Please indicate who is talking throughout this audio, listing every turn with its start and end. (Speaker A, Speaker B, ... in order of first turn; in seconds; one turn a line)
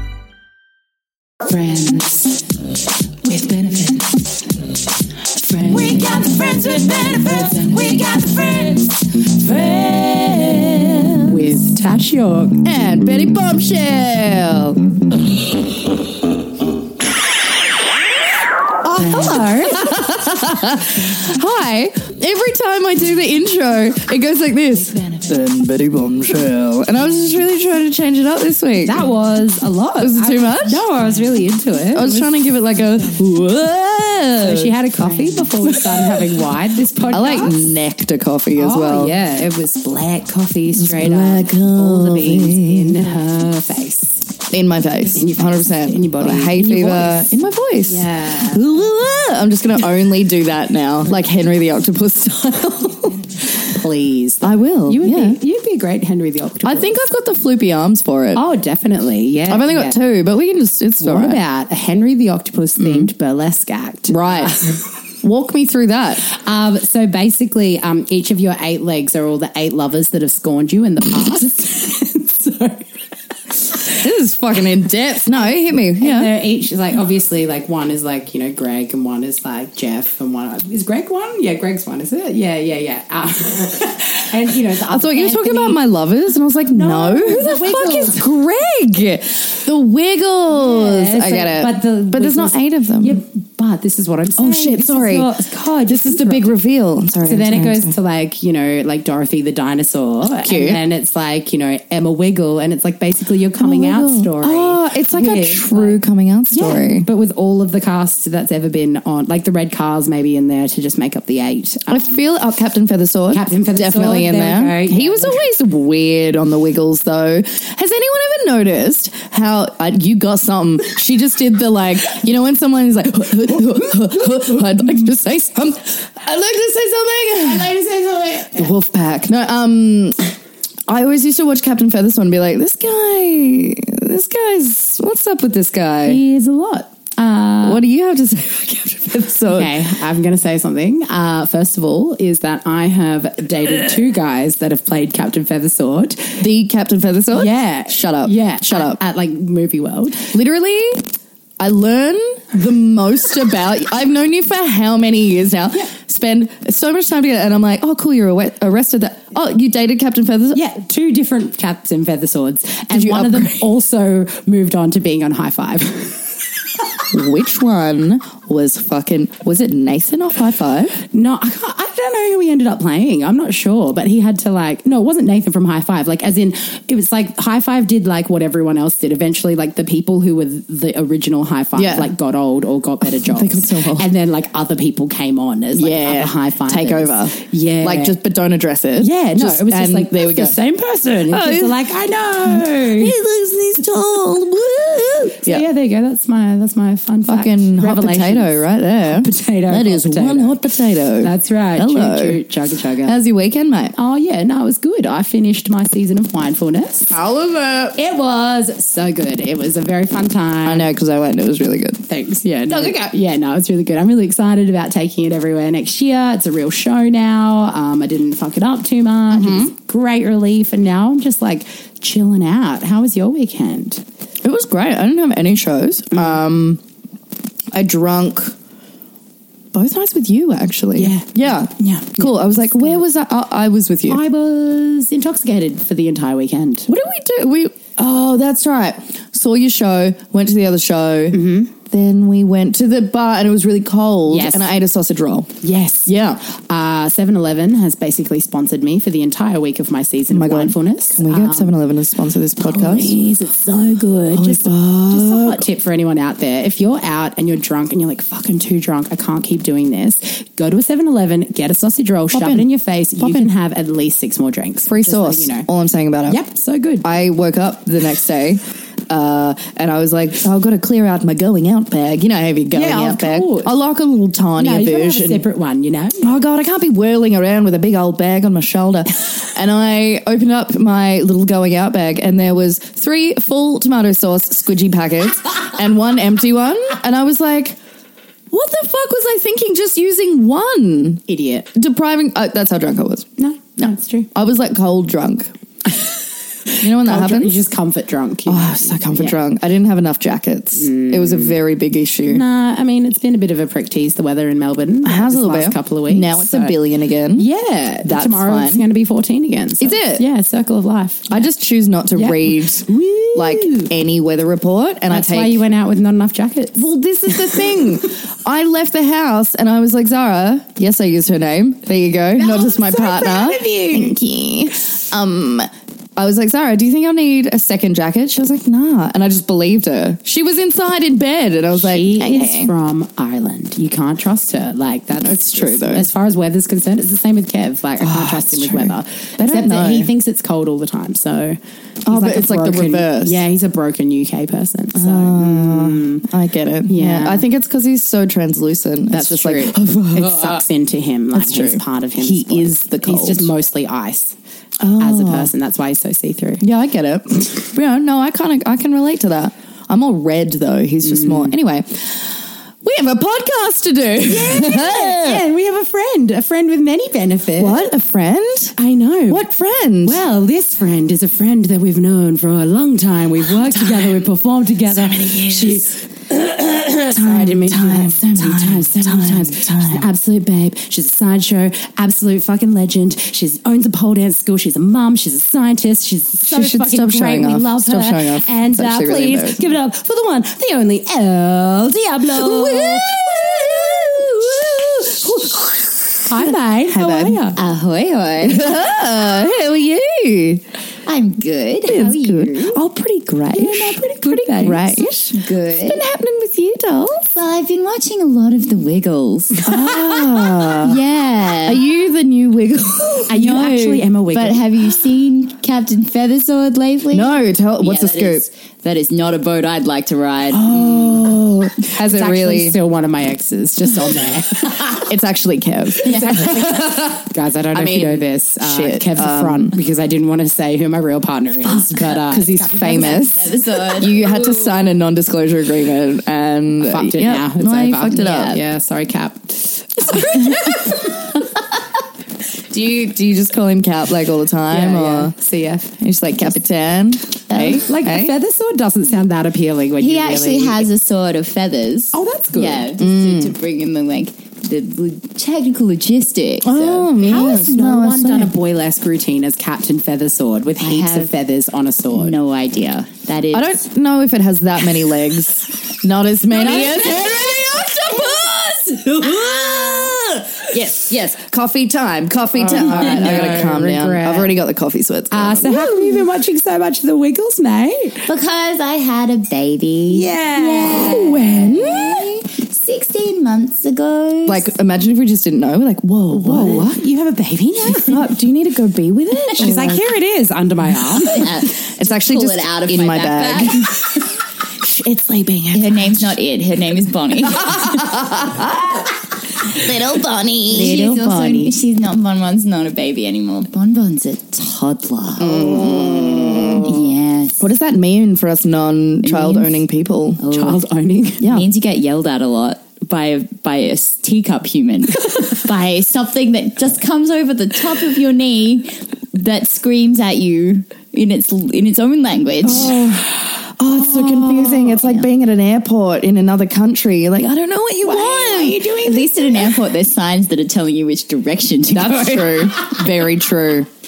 Speaker A: 1.5-2.6
Speaker A: 3.2-4.5
Speaker A: 5.4-12.6
Speaker B: 10.6-11.2
Speaker B: 12.6-14.9
Speaker A: 18.8-19.9
Speaker B: 18.9-29.1
Speaker A: 24.9-25.3
Speaker A: 28.8-32.3
Speaker B: 30.0-30.8
Speaker B: 31.9-34.7
Speaker A: 34.4-37.5
Speaker B: 35.6-36.3
Speaker B: 37.1-39.1
Speaker A: 38.5-44.3
Speaker B: 40.8-43.1
Speaker B: 44.5-53.5
Speaker A: 45.1-47.3
Speaker A: 47.9-48.7
Speaker A: 53.6-57.0
Speaker B: 54.4-55.4
Speaker B: 56.6-58.4
Speaker A: 58.3-60.0
Speaker B: 59.5-61.4
Speaker A: 61.0-64.8
Speaker B: 62.8-63.1
Speaker B: 64.1-64.6
Speaker B: 65.2-66.2
Speaker A: 66.2-72.9
Speaker B: 73.9-76.3
Speaker A: 76.0-85.8
Speaker B: 84.9-93.2
Speaker A: 86.7-88.2
Speaker A: 90.5-96.6
Speaker B: 94.4-95.3
Speaker B: 95.9-97.9
Speaker A: 97.2-112.2
Speaker B: 100.4-100.8
Speaker B: 103.6-107.1
Speaker B: 111.9-127.8
Speaker A: 113.3-115.4
Speaker A: 127.5-128.5
Speaker B: 128.5-130.2
Speaker B: 130.9-136.2
Speaker A: 136.0-137.8
Speaker B: 137.6-139.8
Speaker A: 139.5-146.4
Speaker B: 146.4-149.0
Speaker A: 147.3-150.3
Speaker B: 150.3-151.1
Speaker B: 151.6-160.6
Speaker A: 160.5-166.2
Speaker B: 162.9-163.7
Speaker B: 167.1-171.0
Speaker A: 171.1-188.2
Speaker B: 181.7-182.1
Speaker B: 183.1-184.1
Speaker B: 185.7-190.6
Speaker A: 189.0-193.2
Speaker B: 191.3-191.8
Speaker B: 192.5-195.6
Speaker A: 195.4-198.5
Speaker B: 197.3-202.4
Speaker A: 199.1-200.6
Speaker A: 201.2-203.2
Speaker B: 203.0-203.9
Speaker A: 203.9-207.1
Speaker B: 207.1-208.0
Speaker A: 207.9-210.9
Speaker B: 210.6-213.1
Speaker A: 212.1-224.0
Speaker B: 219.3-219.7
Speaker B: 224.4-226.8
Speaker B: 227.7-228.5
Speaker B: 229.7-234.2
Speaker A: 230.9-233.0
Speaker A: 234.1-236.9
Speaker B: 236.9-245.5
Speaker A: 241.3-241.7
Speaker A: 244.3-244.7
Speaker A: 245.6-251.8
Speaker B: 246.1-246.4
Speaker B: 250.3-253.2
Speaker A: 252.6-265.7
Speaker B: 254.3-255.7
Speaker B: 262.3-263.5
Speaker B: 264.9-266.4
Speaker A: 266.3-267.0
Speaker B: 267.0-275.4
Speaker A: 272.7-273.7
Speaker A: 274.6-276.3
Speaker B: 276.2-287.8
Speaker B: 288.5-291.2
Speaker A: 291.3-291.7
Speaker B: 291.7-293.2
Speaker A: 293.4-294.3
Speaker B: 294.3-295.5
Speaker A: 296.8-299.4
Speaker B: 296.8-297.6
Speaker B: 298.5-302.4
Speaker A: 300.8-301.6
Speaker A: 302.2-306.8
Speaker B: 305.0-307.5
Speaker A: 307.3-311.4
Speaker B: 308.0-308.9
Speaker B: 309.8-310.2
Speaker B: 311.3-315.6
Speaker A: 312.1-313.9
Speaker A: 315.1-316.8
Speaker B: 316.7-332.7
Speaker A: 317.4-317.7
Speaker A: 322.4-324.1
Speaker A: 331.8-346.3
Speaker B: 335.2-336.1
Speaker B: 338.0-340.1
Speaker B: 342.0-343.4
Speaker B: 344.9-350.6
Speaker A: 346.9-347.4
Speaker A: 349.1-354.4
Speaker B: 351.3-353.5
Speaker B: 354.8-355.5
Speaker A: 355.0-356.6
Speaker B: 356.6-365.4
Speaker A: 361.1-361.5
Speaker A: 364.2-367.8
Speaker B: 367.6-368.7
Speaker A: 368.8-369.4
Speaker B: 369.3-370.2
Speaker A: 370.0-394.2
Speaker B: 373.5-374.2
Speaker B: 374.9-375.9
Speaker B: 377.1-380.1
Speaker B: 386.4-389.6
Speaker B: 392.2-397.5
Speaker A: 396.2-397.6
Speaker C: 397.5-398.8
Speaker B: 398.4-400.6
Speaker C: 401.0-402.2
Speaker B: 401.8-407.3
Speaker A: 402.0-402.8
Speaker A: 403.5-405.0
Speaker C: 405.2-406.0
Speaker C: 407.3-409.6
Speaker B: 409.6-411.0
Speaker A: 409.9-410.2
Speaker C: 410.8-411.8
Speaker B: 411.6-413.3
Speaker A: 413.3-414.9
Speaker C: 413.4-421.2
Speaker B: 417.1-418.4
Speaker B: 420.5-422.8
Speaker A: 421.9-425.1
Speaker B: 425.0-429.7
Speaker A: 426.0-433.5
Speaker C: 426.1-426.4
Speaker B: 431.6-438.6
Speaker C: 432.9-434.7
Speaker A: 436.8-441.0
Speaker C: 438.1-438.6
Speaker B: 440.1-440.7
Speaker B: 442.7-445.4
Speaker A: 444.7-445.9
Speaker B: 446.0-448.3
Speaker A: 447.5-450.9
Speaker C: 450.0-457.7
Speaker A: 452.1-452.9
Speaker B: 453.0-453.5
Speaker B: 456.6-458.5
Speaker A: 457.2-462.4
Speaker C: 460.8-461.3
Speaker C: 462.1-463.8
Speaker B: 463.5-476.2
Speaker A: 466.7-467.0
Speaker C: 469.2-470.1
Speaker A: 472.6-474.5
Speaker C: 472.6-473.6
Speaker A: 475.3-478.2
Speaker C: 478.2-484.7
Speaker A: 480.1-481.7
Speaker B: 480.9-482.3
Speaker B: 484.4-487.0
Speaker A: 486.3-488.3
Speaker B: 487.9-490.1
Speaker A: 489.6-491.5
Speaker C: 491.3-494.0
Speaker B: 491.8-494.1
Speaker B: 494.8-496.4
Speaker C: 495.7-498.0
Speaker B: 497.4-501.1
Speaker C: 500.7-507.7
Speaker A: 500.7-501.8
Speaker B: 505.4-510.4
Speaker A: 509.3-509.7
Speaker C: 510.4-510.8
Speaker A: 510.5-511.4
Speaker B: 511.4-511.7
Speaker C: 511.4-523.0
Speaker B: 522.6-528.9
Speaker A: 524.0-525.0
Speaker A: 528.0-529.8
Speaker C: 529.0-533.0
Speaker B: 531.9-533.9